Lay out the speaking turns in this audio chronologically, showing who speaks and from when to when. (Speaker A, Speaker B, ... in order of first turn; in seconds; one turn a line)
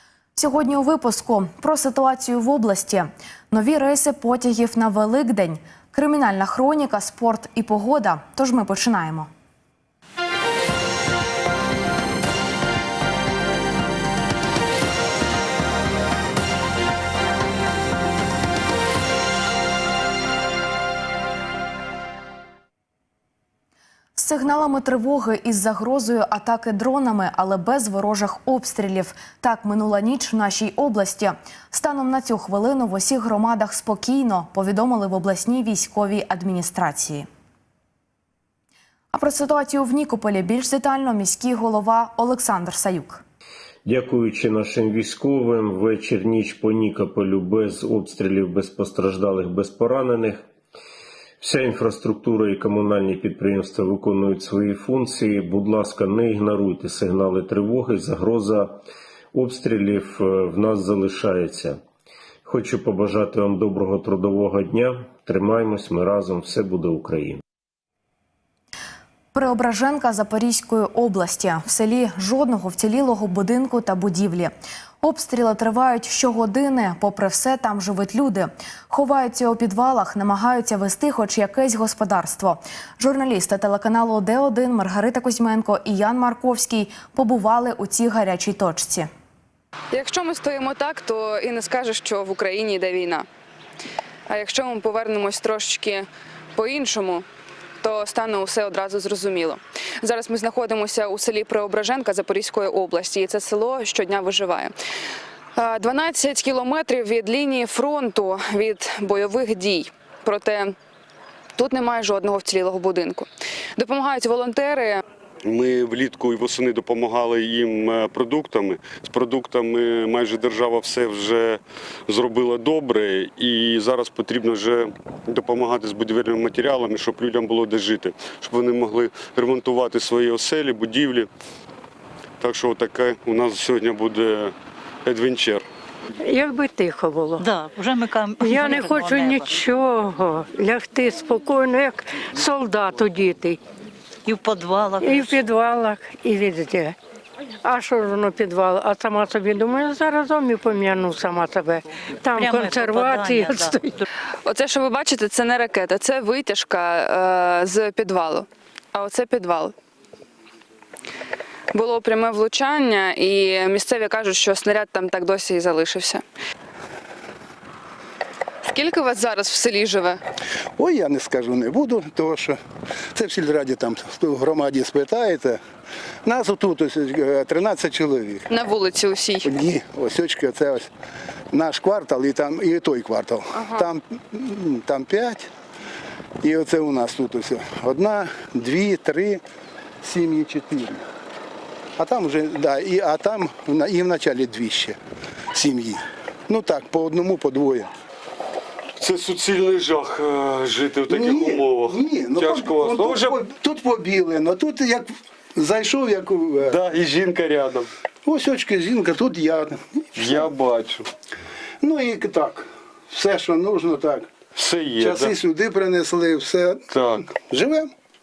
Speaker A: 0.3-9.3
Speaker A: 24.2-37.3
Speaker A: 39.1-43.2
Speaker B: 43.9-50.4
Speaker B: 51.4-58.8
Speaker B: 59.3-61.8
Speaker B: 62.5-67.4
Speaker A: 69.3-89.1
Speaker C: 89.9-93.2
Speaker C: 94.3-97.3
Speaker C: 97.8-104.7
Speaker C: 105.6-110.7
Speaker C: 111.6-115.0
Speaker D: 115.5-131.3
Speaker D: 132.4-134.6
Speaker D: 135.1-135.6
Speaker E: 136.2-137.5
Speaker F: 137.4-139.6
Speaker E: 138.4-143.6
Speaker F: 144.2-145.3
Speaker E: 145.0-147.0
Speaker E: 147.6-154.0
Speaker F: 152.3-154.0
Speaker C: 154.5-159.7
Speaker C: 161.7-166.2
Speaker C: 168.7-170.2
Speaker G: 170.8-172.6
Speaker G: 173.2-175.6
Speaker G: 176.2-178.5
Speaker C: 178.5-179.5
Speaker G: 179.4-180.9
Speaker G: 181.5-185.5
Speaker C: 183.5-183.9
Speaker G: 186.4-189.4
Speaker G: 190.0-191.0
Speaker G: 192.0-195.0
Speaker G: 195.5-197.9
Speaker D: 199.0-203.4
Speaker G: 201.1-206.8
Speaker D: 206.7-207.9
Speaker G: 208.2-210.4
Speaker D: 210.2-211.1
Speaker G: 211.8-214.3
Speaker D: 214.6-215.3
Speaker G: 215.0-216.8
Speaker D: 216.9-217.2
Speaker G: 217.3-217.9